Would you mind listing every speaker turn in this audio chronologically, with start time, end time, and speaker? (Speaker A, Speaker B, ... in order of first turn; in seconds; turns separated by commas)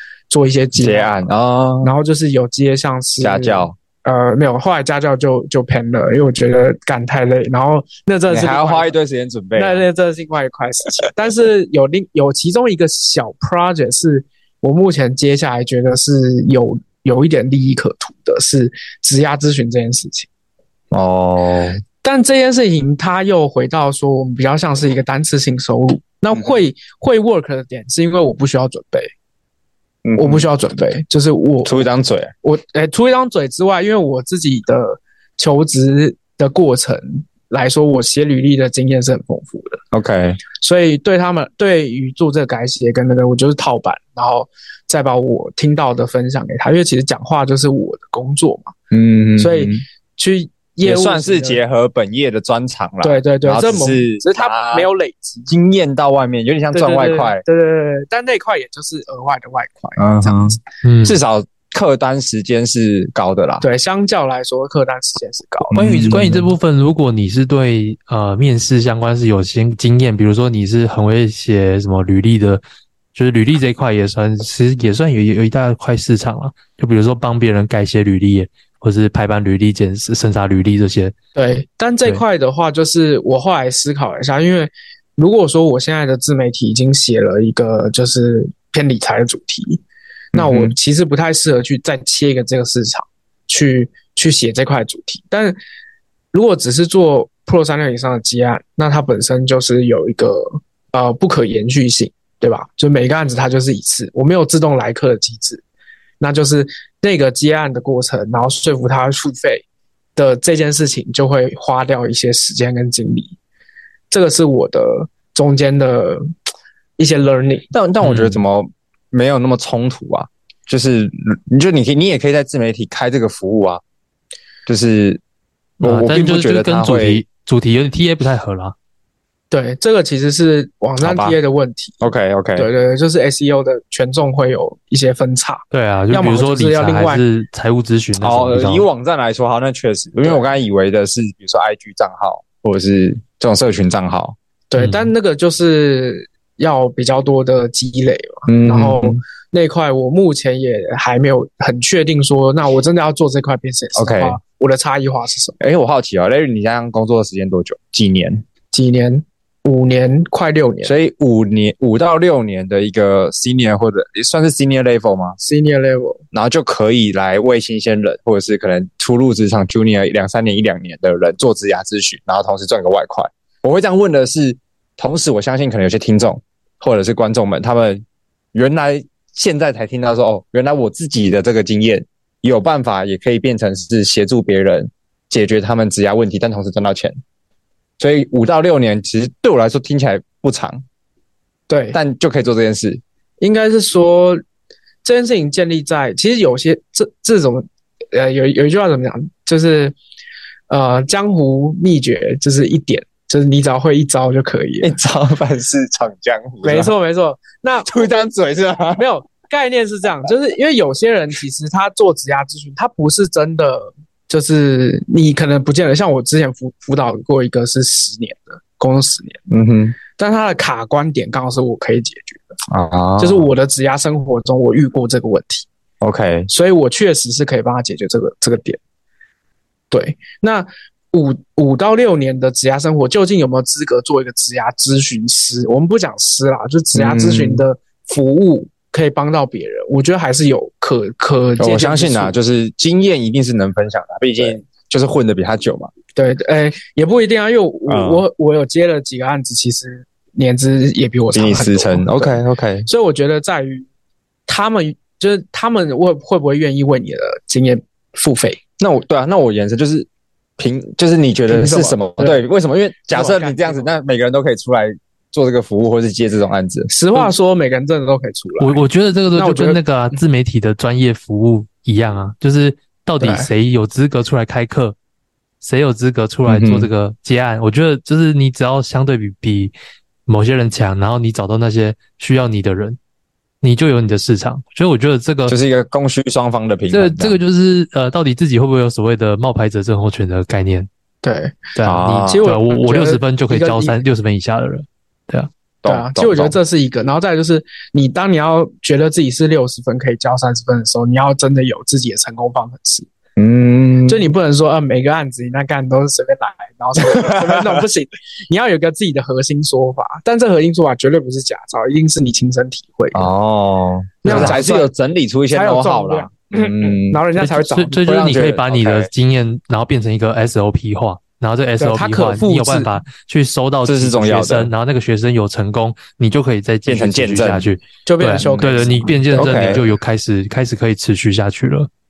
Speaker A: 0.3-1.3, Speaker B: 0.8-1.9, Speaker A: 1.8-8.9, Speaker B: 3.2-3.8, Speaker B: 8.3-9.8, Speaker A: 9.6-20.3, Speaker B: 20.9-21.8, Speaker A: 22.0-29.1, Speaker B: 30.1-30.5, Speaker A: 30.2-31.9, Speaker B: 31.6-32.3, Speaker A: 32.4-39.8, Speaker B: 39.9-40.4, Speaker A: 40.6-48.7, Speaker B: 48.9-49.8, Speaker A: 49.4-51.6, Speaker B: 50.8-54.9, Speaker A: 53.0-55.5, Speaker B: 55.5-57.4, Speaker A: 56.7-60.6, Speaker B: 60.0-63.6, Speaker C: 60.8-61.2, Speaker A: 63.6-65.8, Speaker B: 65.7-66.5, Speaker C: 65.7-72.6, Speaker C: 73.1-81.2, Speaker A: 81.3-89.8, Speaker A: 90.3-95.6, Speaker B: 90.3-90.7, Speaker A: 96.3-105.6, Speaker A: 106.2-109.6, Speaker A: 110.2-113.4, Speaker A: 114.1-116.3, Speaker A: 117.0-117.7, Speaker B: 117.7-123.8, Speaker C: 118.0-118.4, Speaker B: 124.7-125.2, Speaker B: 125.8-127.2, Speaker C: 125.8-128.8, Speaker A: 129.5-132.0, Speaker B: 131.0-131.4, Speaker B: 132.0-132.7, Speaker A: 132.6-137.2, Speaker C: 135.7-138.9, Speaker B: 138.2-144.4, Speaker A: 144.7-155.6, Speaker C: 144.8-145.1, Speaker B: 148.5-149.2, Speaker B: 153.9-154.4, Speaker B: 155.6-158.4, Speaker A: 158.7-160.9, Speaker B: 160.8-165.4, Speaker A: 165.4-166.2, Speaker B: 166.3-187.2, Speaker B: 188.0-190.8, Speaker A: 191.7-192.0, Speaker B: 191.9-193.0, Speaker A: 193.4-194.4, Speaker A: 195.0-199.9, Speaker A: 200.7-204.9, Speaker B: 204.8-206.9, Speaker A: 206.6-208.2, Speaker B: 207.9-209.0, Speaker A: 209.0-219.4, Speaker B: 219.5-220.0, Speaker A: 220.1-222.6, Speaker B: 222.7-223.5, Speaker A: 223.2-225.7, Speaker B: 226.0-226.5, Speaker A: 226.5-228.8, Speaker A: 229.9-242.3, Speaker B: 236.9-237.7, Speaker B: 241.6-245.9, Speaker A: 246.2-253.9, Speaker B: 247.9-248.2, Speaker B: 251.3-252.9, Speaker A: 254.5-258.6, Speaker B: 258.8-260.1, Speaker B: 260.6-266.9, Speaker A: 261.5-262.4, Speaker A: 263.1-263.9, Speaker A: 266.9-269.8, Speaker C: 268.6-275.0, Speaker A: 273.2-273.5, Speaker C: 275.6-279.7, Speaker B: 276.5-276.9, Speaker C: 280.3-283.0, Speaker C: 283.6-285.6, Speaker B: 285.5-287.4, Speaker C: 286.9-290.9, Speaker A: 291.2-291.8, Speaker C: 291.8-295.5, Speaker B: 291.8-292.5, Speaker A: 292.3-294.0, Speaker B: 295.8-296.6, Speaker A: 295.9-303.1, Speaker B: 303.4-304.3, Speaker A: 304.1-313.3, Speaker B: 307.0-307.8, Speaker B: 313.1-317.2, Speaker A: 314.2-314.9, Speaker C: 314.3-314.6, Speaker A: 315.5-318.0, Speaker C: 317.4-331.9, Speaker B: 318.0-319.1, Speaker A: 321.8-323.0, Speaker B: 323.9-324.7, Speaker B: 326.9-327.7, Speaker A: 328.1-329.8, Speaker B: 328.4-328.8, Speaker B: 329.3-329.8